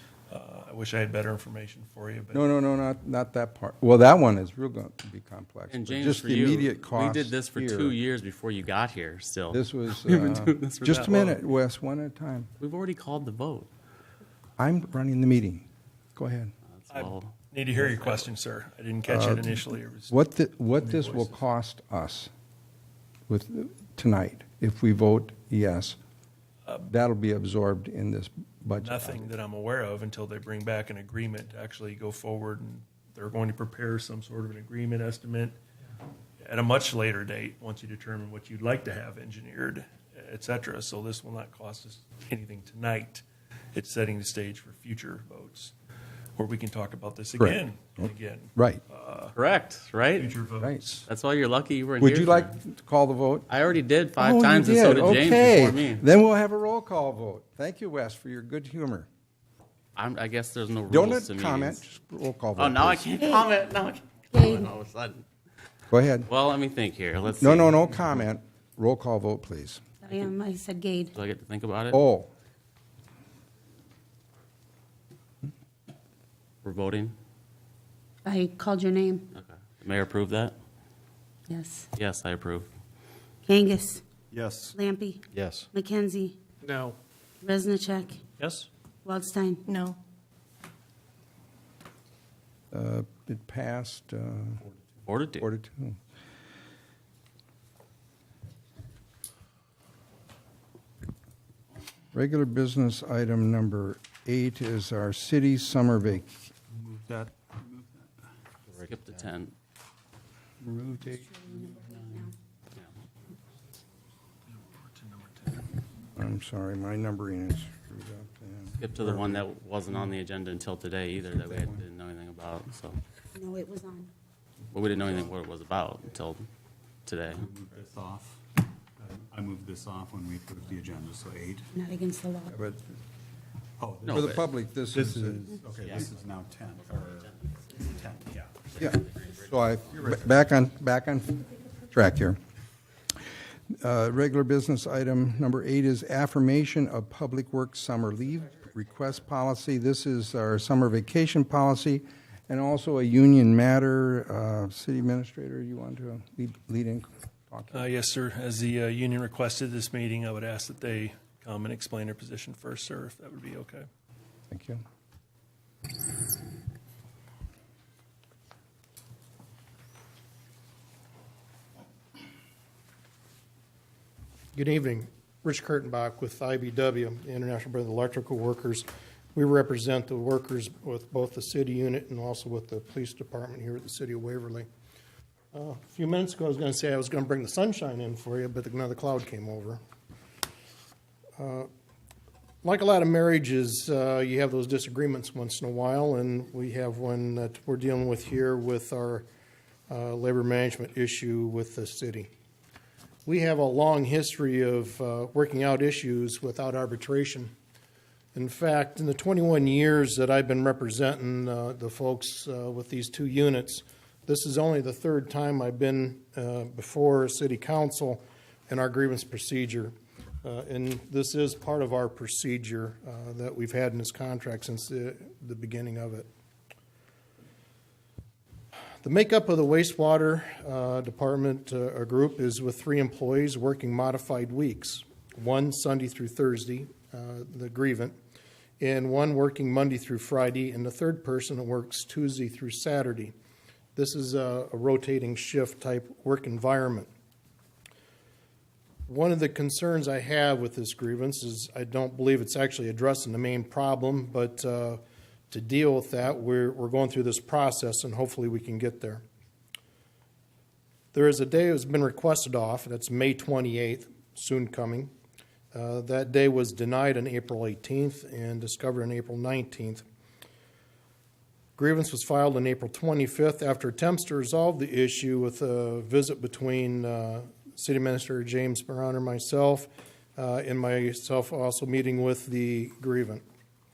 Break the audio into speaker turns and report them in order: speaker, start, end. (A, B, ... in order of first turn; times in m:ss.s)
0:00.3-0:02.4 A
0:02.3-0:08.0 B
0:05.7-0:11.3 C
0:09.5-0:12.5 B
0:10.9-0:11.4 A
0:12.6-0:13.7 C
0:14.6-0:16.5 B
0:16.8-0:18.2 C
0:16.9-0:20.1 A
0:19.1-0:22.3 B
0:20.8-0:21.4 A
0:23.3-0:26.0 B
0:26.9-0:29.3 B
0:28.8-0:35.6 A
0:36.4-0:45.7 A
0:46.4-0:49.4 A
0:47.4-0:48.8 B
0:49.3-0:50.3 C
0:50.2-0:51.1 A
0:50.6-0:50.8 B
0:51.1-0:52.6 C
0:52.0-0:53.6 B
0:53.5-0:56.0 C
0:54.2-0:59.1 B
1:00.0-1:01.8 C
1:00.9-1:03.2 B
1:02.6-1:05.2 C
1:03.2-1:03.5 D
1:04.3-1:04.7 D
1:05.9-1:06.3 B
1:06.3-1:08.2 C
1:07.4-1:09.8 B
1:10.0-1:11.1 D
1:10.0-1:10.3 C
1:11.1-1:12.0 C
1:11.9-1:12.3 B
1:16.6-1:17.1 C
1:18.2-1:19.3 D
1:19.3-1:20.6 C
1:21.5-1:21.9 D
1:22.0-1:22.7 C
1:23.4-1:24.0 D
1:24.3-1:24.8 E
1:24.7-1:26.4 D
1:25.3-1:25.7 C
1:26.7-1:26.9 A
1:27.4-1:28.2 D
1:29.0-1:29.7 D
1:32.7-1:34.6 B
1:35.0-1:35.4 C
1:35.4-1:36.0 B
1:42.1-1:46.4 B
1:46.7-1:48.1 E
1:48.7-1:49.6 C
1:50.6-1:52.3 E
1:51.0-1:52.3 D
1:54.6-1:55.6 A
1:56.2-1:59.4 B
1:58.8-2:03.0 C
2:03.3-2:04.1 D
2:04.7-2:06.5 C
2:07.0-2:07.4 C
2:07.3-2:08.4 E
2:09.0-2:11.7 E
2:11.7-2:12.6 D
2:12.5-2:12.8 B
2:13.8-2:18.8 E
2:14.0-2:14.4 C
2:14.1-2:15.5 B
2:15.8-2:16.2 C
2:16.8-2:17.6 C
2:18.7-2:19.8 C
2:18.8-2:22.4 B
2:23.8-2:37.8 B
2:37.7-2:43.9 A
2:44.5-2:44.8 B
2:54.5-3:04.7 F
3:05.5-3:09.8 F
3:11.4-3:11.7 F
3:12.6-3:19.3 F
3:19.9-3:22.3 F
3:23.3-3:27.5 F
3:28.4-3:46.3 F
3:49.0-3:58.2 F
3:58.8-4:03.3 F
4:04.0-4:07.1 F
4:09.1-4:19.2 F
4:21.1-4:25.1 F
4:25.7-4:30.0 F
4:31.8-4:43.4 F